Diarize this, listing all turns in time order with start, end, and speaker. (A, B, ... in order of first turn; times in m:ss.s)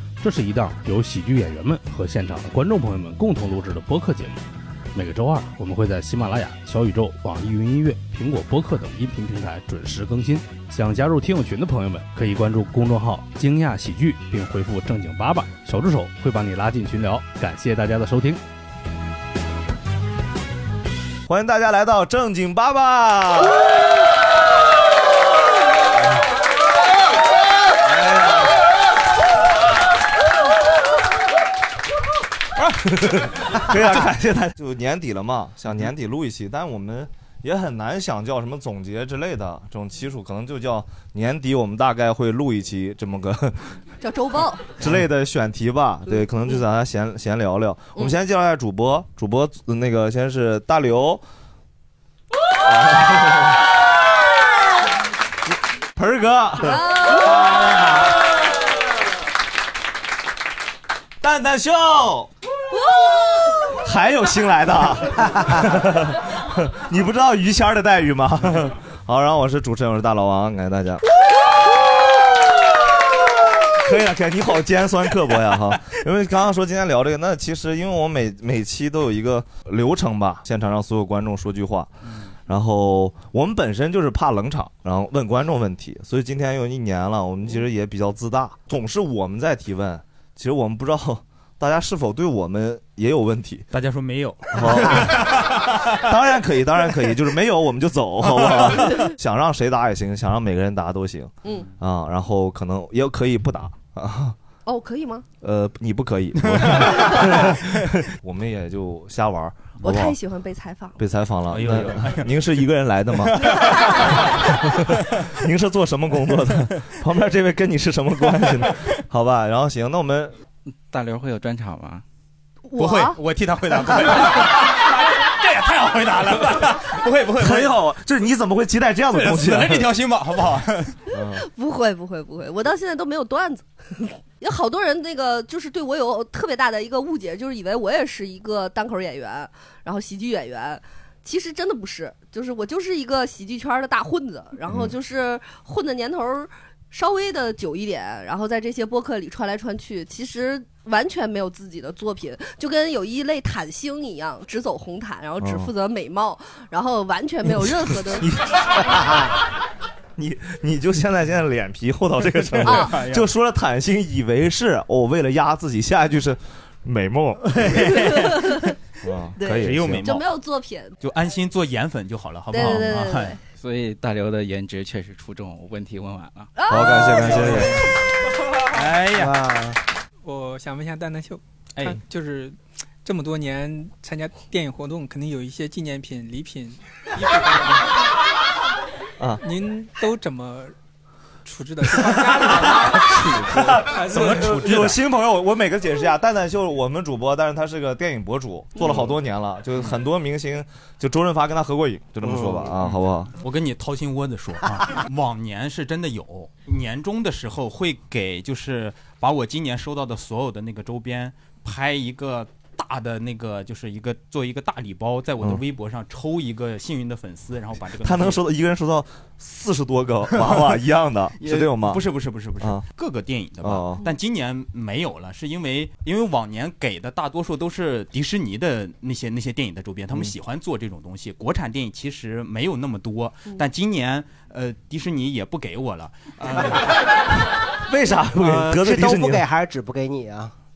0:00.2-0:18.4 A
0:21.3-0:23.6 B
0:27.9-0:28.4 B
0:33.0-0:43.7 B
0:44.0-0:44.7 C
0:44.8-0:51.2 B
0:52.6-0:53.6 B
0:56.0-0:56.8 B
0:56.6-0:57.4 C
1:01.2-1:02.3 B
1:02.7-1:03.7 C
1:03.8-1:11.0 B
1:13.8-1:21.9 B
1:22.5-1:33.7 B
1:33.7-1:35.8 D
1:34.5-1:35.3 B
1:36.0-1:44.4 B
1:38.2-1:39.0 D
1:44.6-1:45.2 C
1:45.4-1:50.2 B
1:46.4-1:46.9 D
1:49.8-1:51.0 C
1:51.0-2:00.3 B
1:51.5-1:52.3 D
1:53.3-1:54.1 D
2:00.7-2:02.0 E
2:02.7-2:03.2 C
2:02.8-2:07.8 D
2:07.4-2:09.9 B
2:09.1-2:10.9 D
2:11.1-2:11.4 B
2:11.4-2:38.3 C
2:35.4-2:35.7 B
2:37.9-2:39.2 B
2:40.2-2:47.7 B
2:42.4-2:43.3 D
2:42.6-2:43.0 C
2:47.6-2:48.7 D
2:48.0-2:48.6 C
2:49.0-2:50.1 B
2:49.4-2:51.0 C
2:49.6-2:50.3 D
2:51.0-2:53.4 D
2:52.5-2:53.4 C
2:53.6-2:56.5 E
2:56.6-2:57.4 C
2:56.7-2:57.8 B
2:57.4-2:57.8 E
2:58.7-2:59.4 D
2:59.1-2:59.8 F
3:00.2-3:07.7 G
3:01.8-3:02.0 D
3:09.2-3:09.4 B
3:09.4-3:10.7 G
3:11.4-3:14.5 G
3:12.0-3:23.3 B
3:13.2-3:15.0 D
3:22.2-3:22.7 F
3:22.8-3:38.4 D
3:38.0-3:42.1 B
3:40.3-3:40.7 D
3:41.4-3:57.0 D
3:43.6-3:44.0 B
3:57.8-3:59.5 B
3:58.4-4:00.5 F